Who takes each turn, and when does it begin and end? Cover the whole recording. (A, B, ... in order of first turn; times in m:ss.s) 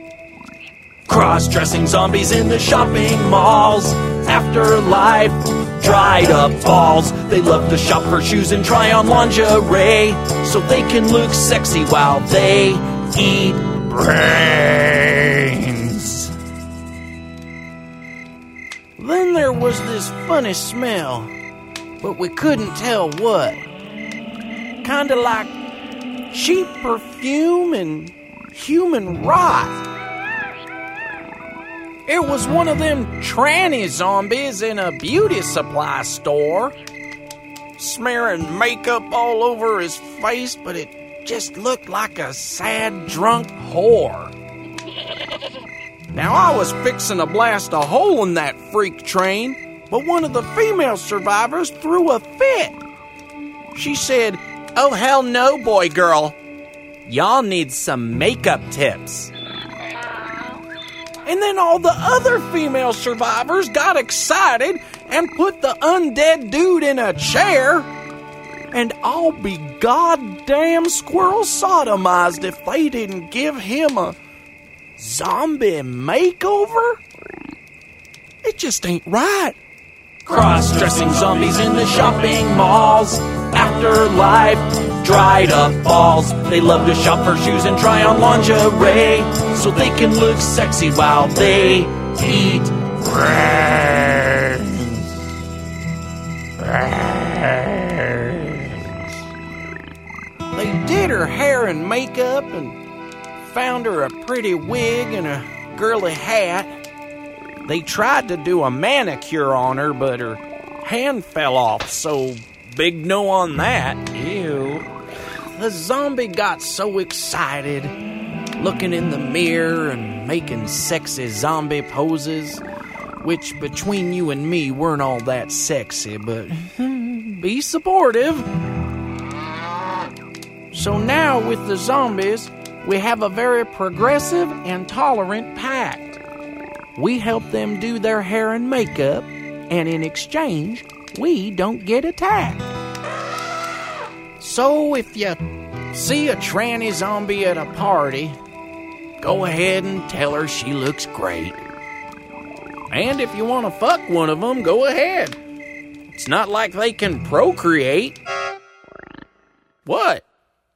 0:01.1-0:16.3 A
0:19.0-0:21.3 A
0:22.0-0:23.6 A
0:24.8-0:25.5 A
0:26.3-0:29.8 A
0:32.1-0:36.8 A
0:37.8-0:44.3 A
0:46.1-0:52.8 A
0:53.7-0:56.4 A
0:57.1-0:59.3 A
1:01.2-1:07.9 A
1:08.7-1:14.2 A
1:15.0-1:17.0 A
1:18.4-1:19.6 A
1:20.2-1:35.0 A
1:36.6-1:38.6 A
1:40.5-1:42.8 A
1:43.4-1:46.7 A
1:47.6-1:54.9 A
1:55.6-1:58.0 A
1:58.6-2:02.6 A
2:03.2-2:08.6 A
2:10.7-2:16.2 A
2:17.0-2:22.7 A
2:24.4-2:28.4 A
2:29.2-2:31.6 A
2:32.9-2:35.4 A
2:36.1-2:38.2 A
2:39.9-2:40.2 A